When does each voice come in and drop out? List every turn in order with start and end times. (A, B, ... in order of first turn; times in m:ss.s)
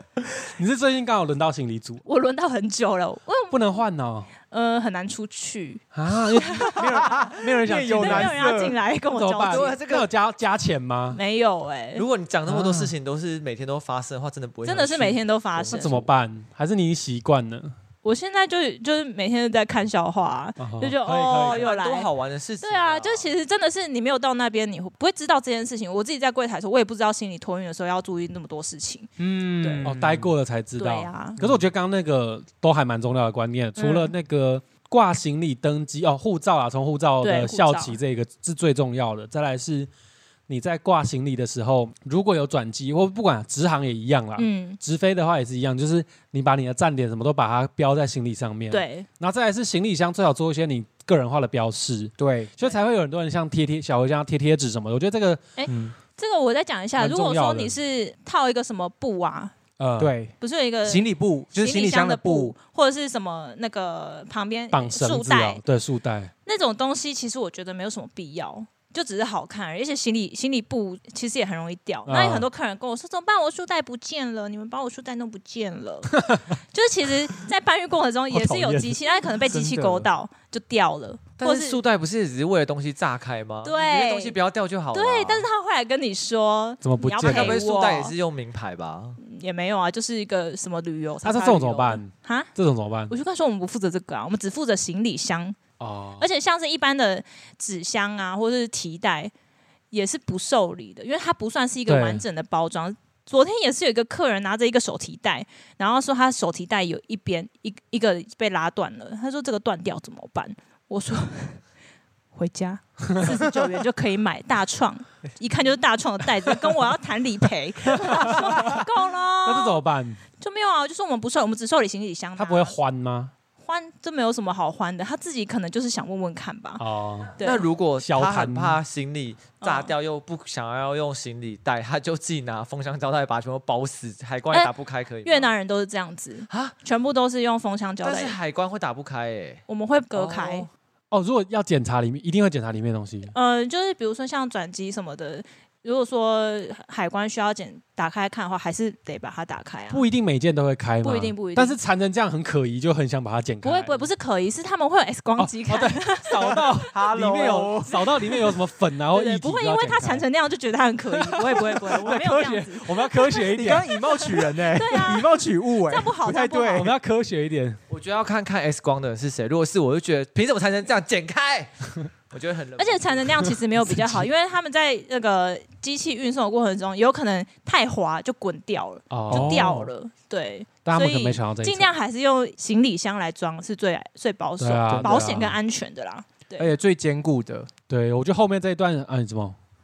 0:00.4-0:02.0 A
0:02.0-0:03.8 B
0:03.5-0:04.3 A
0:04.5-0:07.1 B
0:05.9-0:08.4 A
0:06.8-0:08.8 C
0:08.0-0:09.8 B
0:09.1-0:11.2 A
0:09.4-0:10.1 D
0:11.1-0:12.0 B
0:12.0-0:16.1 D
0:12.5-0:12.9 A
0:14.6-0:16.0 B
0:15.7-0:17.8 A
0:18.0-0:22.1 B
0:20.6-0:21.7 A
0:21.3-0:23.3 D
0:22.6-0:30.0 B
0:29.2-0:30.3 C
0:29.8-0:39.9 A
0:30.8-0:31.4 B
0:31.4-0:31.7 C
0:33.8-0:34.1 B
0:37.2-0:38.0 B
0:40.5-0:55.4 A
0:44.4-0:44.8 B
0:48.7-0:49.1 B
0:52.2-0:52.7 C
0:55.6-0:59.5 B
0:55.7-0:55.9 C
0:57.0-0:57.8 A
0:59.8-1:00.2 A
1:00.0-1:02.6 C
1:00.4-1:05.6 B
1:04.7-1:06.3 A
1:06.5-1:16.2 B
1:12.1-1:12.5 A
1:16.2-1:16.6 A
1:16.7-1:21.8 B
1:18.3-1:19.0 A
1:19.5-1:20.0 A
1:19.7-1:20.0 C
1:21.4-1:25.5 D
1:23.6-1:24.4 B
1:24.9-1:28.2 B
1:26.8-1:27.6 A
1:27.2-1:29.2 D
1:29.2-1:32.5 B
1:31.2-1:33.1 A
1:33.1-1:35.6 B
1:35.8-1:36.3 A
1:36.2-1:39.3 B
1:39.9-1:51.6 B
1:41.9-1:42.2 A
1:52.3-1:59.8 B
1:57.9-1:58.9 A
1:59.4-2:00.2 A
2:00.4-2:02.8 B
2:02.4-2:03.3 A
2:03.6-2:06.8 B
2:06.8-2:07.4 A
2:07.4-2:07.7 B
2:07.4-2:15.5 D
2:08.0-2:08.8 A
2:09.6-2:09.9 B
2:15.2-2:18.4 B
2:16.5-2:16.8 D
2:18.0-2:20.7 D
2:19.7-2:20.7 B
2:21.1-2:23.3 A
2:23.3-2:30.0 B
2:29.9-2:34.1 A
2:31.0-2:31.8 B
2:33.6-2:36.9 B
2:35.4-2:40.3 A
2:36.9-2:38.1 C
2:39.1-2:46.9 B
2:41.1-2:43.9 A
2:43.4-2:46.9 C
2:46.7-2:47.8 A
2:47.9-2:53.6 D
2:52.8-3:06.7 B
2:53.9-2:54.3 A
2:59.1-2:59.9 A
2:59.3-2:59.9 C
3:00.8-3:01.9 A
3:04.6-3:05.6 A
3:04.9-3:05.3 C
3:06.6-3:07.7 C
3:07.9-3:09.6 A